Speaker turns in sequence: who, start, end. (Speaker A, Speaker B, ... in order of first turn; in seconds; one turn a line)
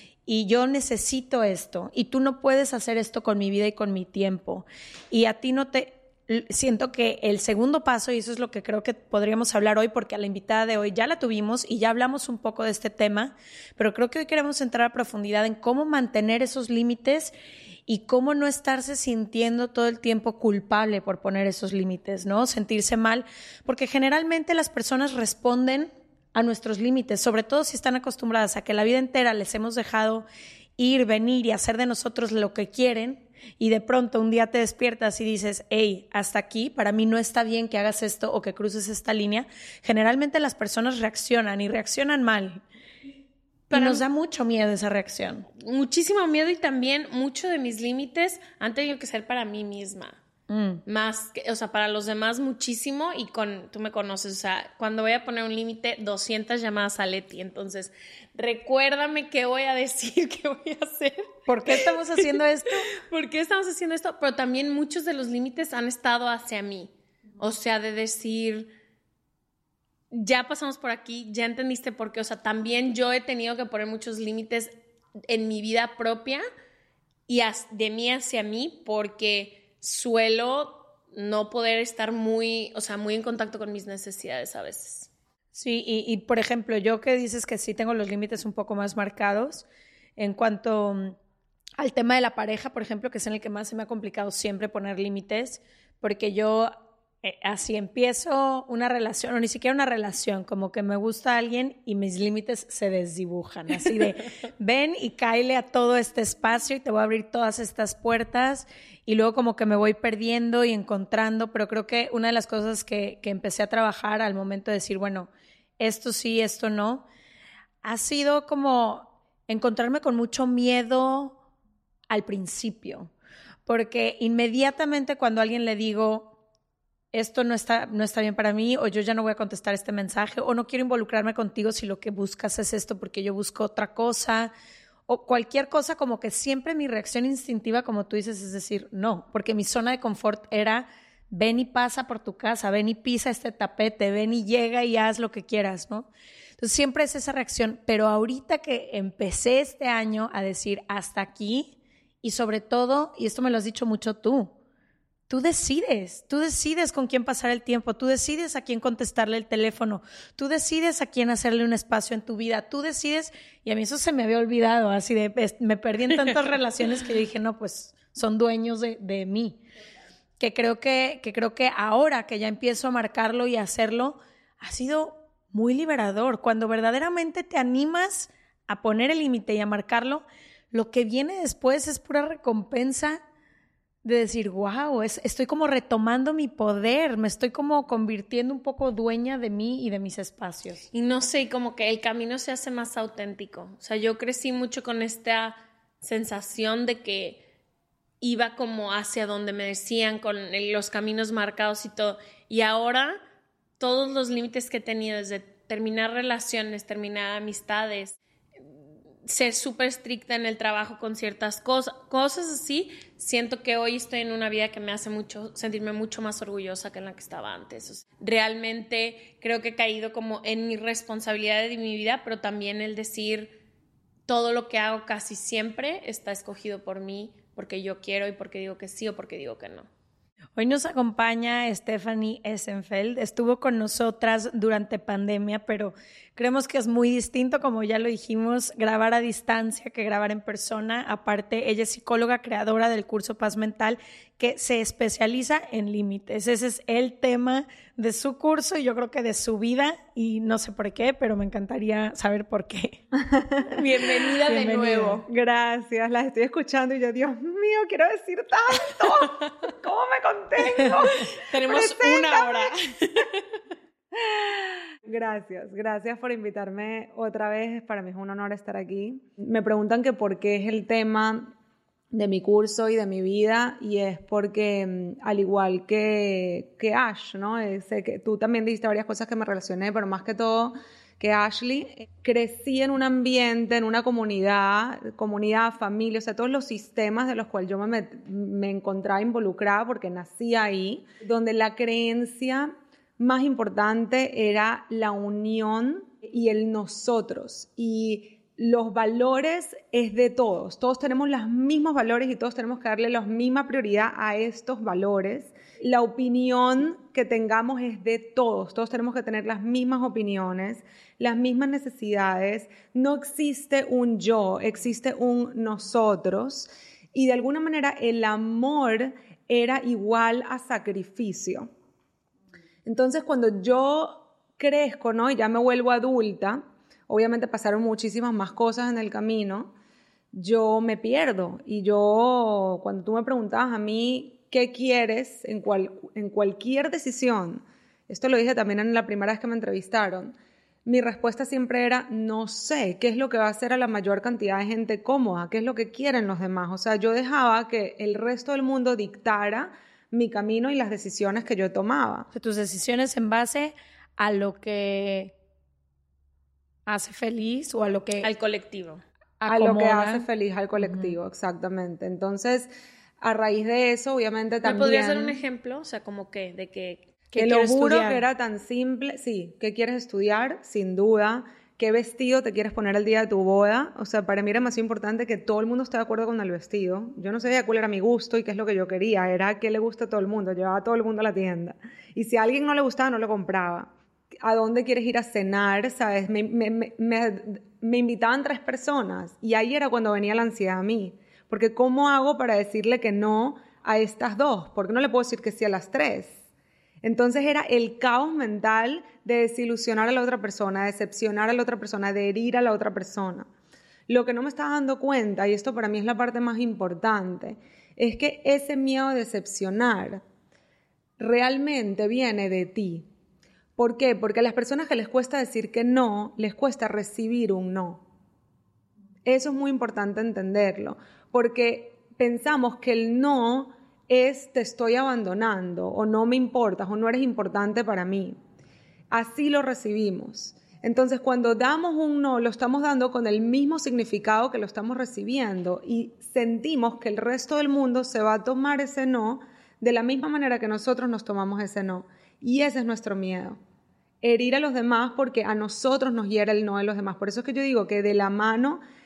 Speaker A: 0.2-17.3
Speaker A: 17.9-30.2
Speaker A: 30.8-42.6
Speaker B: 43.7-44.0
Speaker A: 43.7-45.5
Speaker B: 45.6-50.2
Speaker A: 50.5-50.8
Speaker B: 50.9-62.4
Speaker A: 61.5-62.8
Speaker B: 63.1-68.7
Speaker B: 70.1-74.7
Speaker B: 75.3-76.4
Speaker B: 77.3-85.1
Speaker A: 85.5-89.7
Speaker A: 90.2-91.2
Speaker A: 91.8-117.0
Speaker A: 117.8-121.3
Speaker A: 122.1-123.1
Speaker A: 123.7-126.3
Speaker A: 127.1-134.5
Speaker A: 135.1-154.5
Speaker A: 155.3-169.6
Speaker A: 170.4-183.2
Speaker A: 184.0-190.8
Speaker B: 190.9-197.4
Speaker B: 198.2-203.2
Speaker B: 203.8-208.2
Speaker B: 209.2-223.6
Speaker B: 224.3-229.9
Speaker A: 230.6-253.0
Speaker C: 253.2-253.7
Speaker B: 253.7-255.2
Speaker A: 254.4-255.2
Speaker C: 255.2-262.7
Speaker B: 261.3-263.3
Speaker C: 264.1-271.5
Speaker C: 272.1-321.7
Speaker C: 322.8-329.7
Speaker C: 330.3-352.3
Speaker A: 352.3-355.3
Speaker A: 356.9-358.3
Speaker B: 358.2-359.0
Speaker A: 359.4-361.1
Speaker C: 359.5-365.4
Speaker B: 364.6-367.1
Speaker A: 367.3-368.2
Speaker C: 367.3-396.4
Speaker C: 397.0-403.5
Speaker C: 404.1-410.2
Speaker C: 411.2-413.1
Speaker C: 413.8-418.0
Speaker C: 419.2-428.4
Speaker C: 429.1-443.6
Speaker C: 444.2-448.8